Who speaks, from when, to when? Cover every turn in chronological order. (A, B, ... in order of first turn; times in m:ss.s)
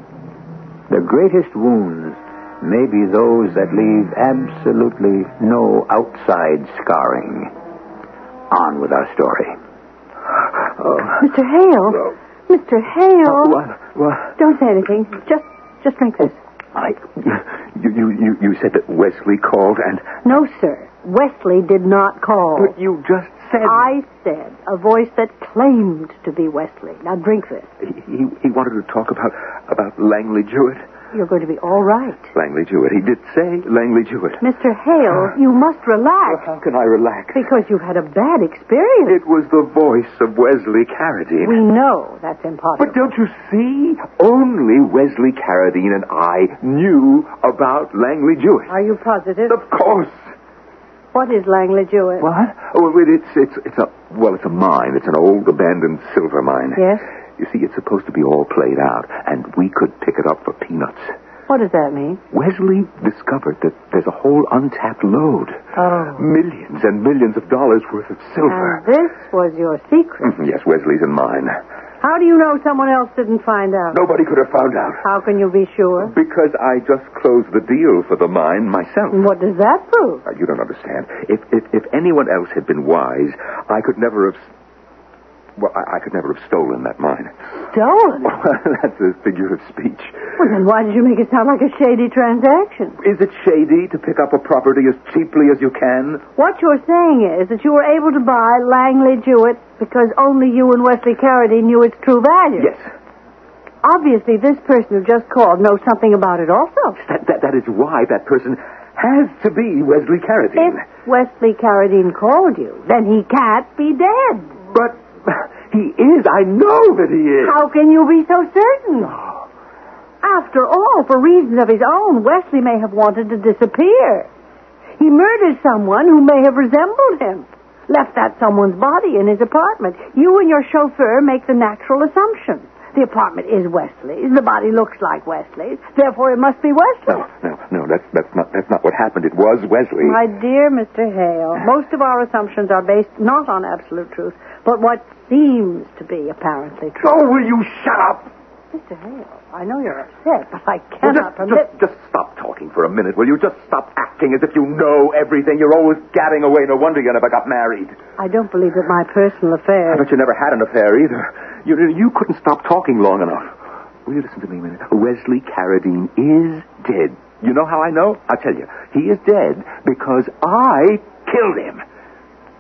0:00.9-0:07.5 A
0:08.5-0:09.6 A
0:10.8-0:11.2 B
0:11.2-0:13.6 C
0:13.3-0:14.4 B
0:14.4-0:16.4 C
0:16.8-0:20.1 B
0:20.2-0:22.7 C
0:22.6-0:23.9 B
0:23.6-0:27.7 C
0:27.8-0:30.8 B
0:31.1-0:32.3 C
0:32.4-0:34.4 B
0:34.4-0:36.5 C
0:36.3-0:37.5 B
0:37.3-0:39.2 C
0:39.1-0:41.6 B
0:41.4-0:43.1 C
0:42.8-0:48.7 B
0:48.7-0:49.6 C
0:49.5-0:50.2 B
0:51.1-0:52.3 C
0:52.2-0:56.8 B
0:56.8-0:57.0 C
0:57.4-1:01.1 B
1:01.5-1:02.2 C
1:02.3-1:08.8 B
1:05.8-1:06.2 C
1:08.5-1:10.4 C
1:10.2-1:11.6 B
1:12.0-1:14.0 C
1:13.9-1:15.0 B
1:15.0-1:16.1 C
1:16.0-1:19.3 B
1:19.1-1:20.2 C
1:20.2-1:24.4 B
1:25.6-1:27.3 B
1:27.6-1:28.3 C
1:28.2-1:30.4 B
1:30.4-1:33.0 C
1:33.0-1:36.2 B
1:36.4-1:42.7 C
1:42.6-1:42.8 B
1:43.8-1:47.0 C
1:47.0-1:50.8 B
1:50.6-1:54.5 C
1:54.7-1:57.6 B
1:57.4-1:59.2 C
2:00.2-2:04.3 C
2:05.0-2:17.2 C
2:17.1-2:20.2 B
2:20.0-2:27.2 C
2:27.0-2:28.3 B
2:28.7-2:31.7 C
2:31.0-2:38.0 B
2:38.2-2:40.0 C
2:39.9-2:43.5 B
2:44.1-2:51.8 B